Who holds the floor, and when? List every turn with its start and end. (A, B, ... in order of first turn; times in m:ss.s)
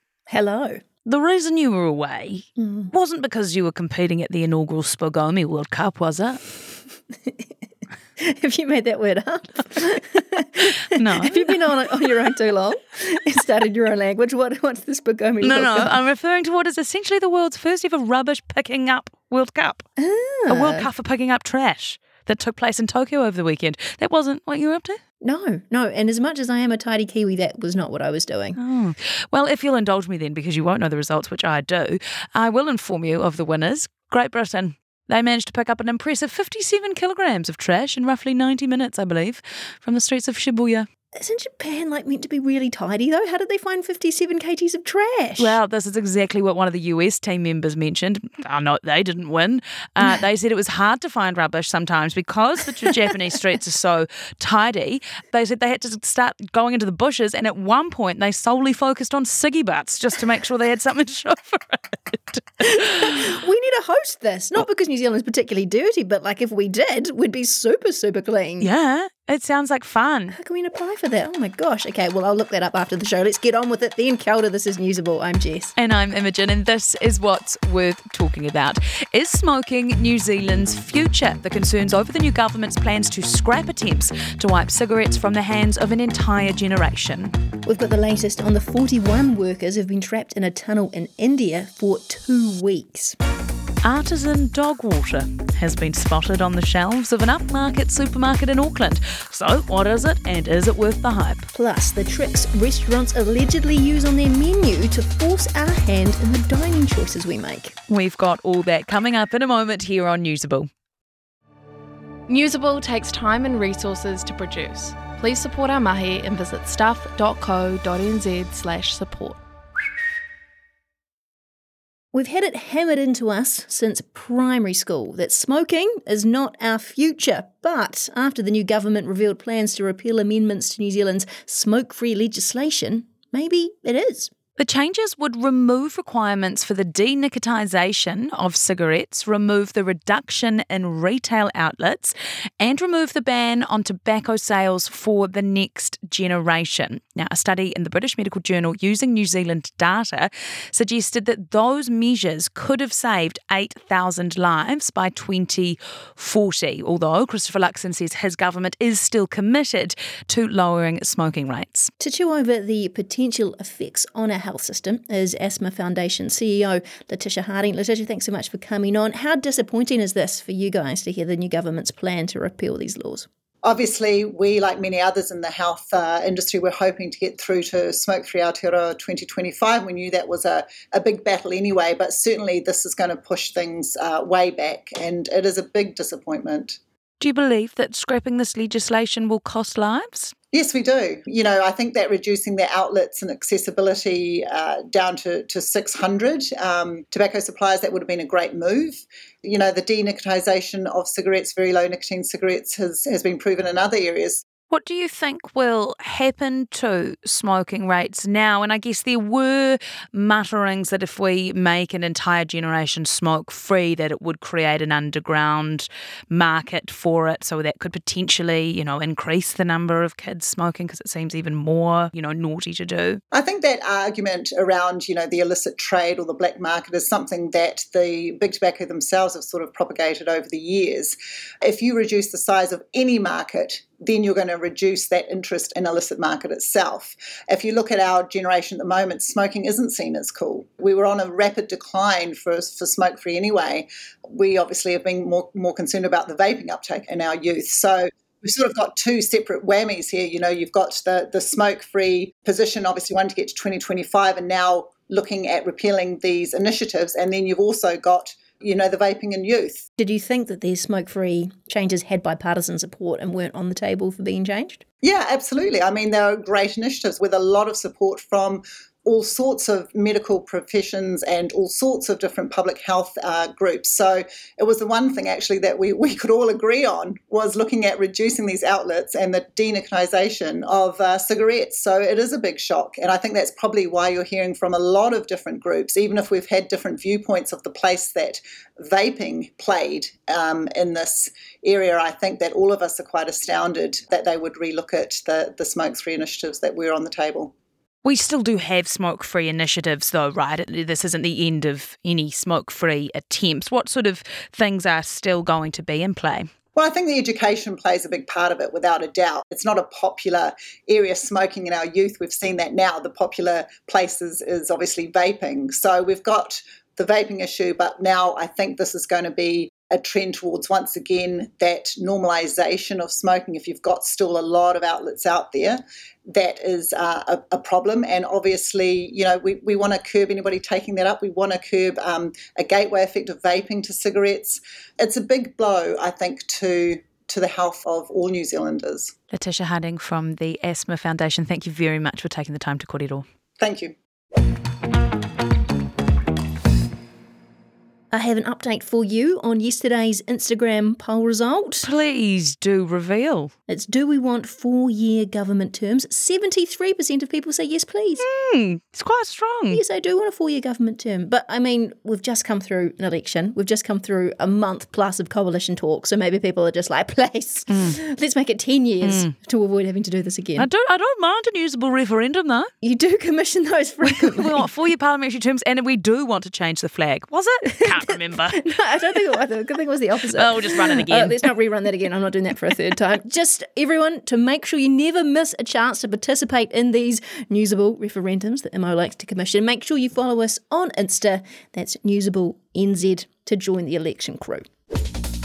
0:00.3-0:00.8 A
0:01.0-0:06.4 B
0:02.6-0:02.9 A
0:08.2-0:16.0 A
0:10.9-0:11.5 B
0:15.4-0:19.8 B
0:20.0-0:20.9 A
0:20.5-0:25.0 B
0:25.2-0:28.6 A
0:28.6-0:40.9 B
0:41.2-0:45.6 A
0:45.4-1:02.8 B
1:02.6-1:08.7 A
1:08.6-1:10.4 B
1:10.3-1:15.7 A
1:15.8-1:27.3 B
1:27.6-1:33.2 A
1:33.8-1:41.5 B
1:41.5-1:47.7 A
1:47.9-1:50.7 B
1:52.5-1:57.5 C
1:58.2-1:58.6 C
2:02.1-2:14.3 A
2:14.6-2:41.9 B
2:42.0-2:53.3 A
2:53.6-3:06.8 D
3:07.2-3:10.3 B
3:10.5-3:24.4 D
3:24.7-3:43.2 B
3:43.3-4:19.8 D
4:20.0-4:24.8 A
4:25.0-4:57.5 D
4:58.0-5:06.5 B
5:06.7-5:39.1 D
5:39.3-5:43.2 B
5:43.6-5:43.9 D
5:48.1-5:51.9 A
5:51.8-5:53.5 B
5:53.7-5:58.2 A
5:58.2-5:59.8 B
5:59.7-6:10.7 A
6:07.7-6:08.0 B
6:09.0-6:09.3 B
6:10.6-6:12.7 B
6:12.8-6:14.7 A
6:14.0-6:18.6 B
6:17.7-6:34.6 A
6:20.3-6:21.4 B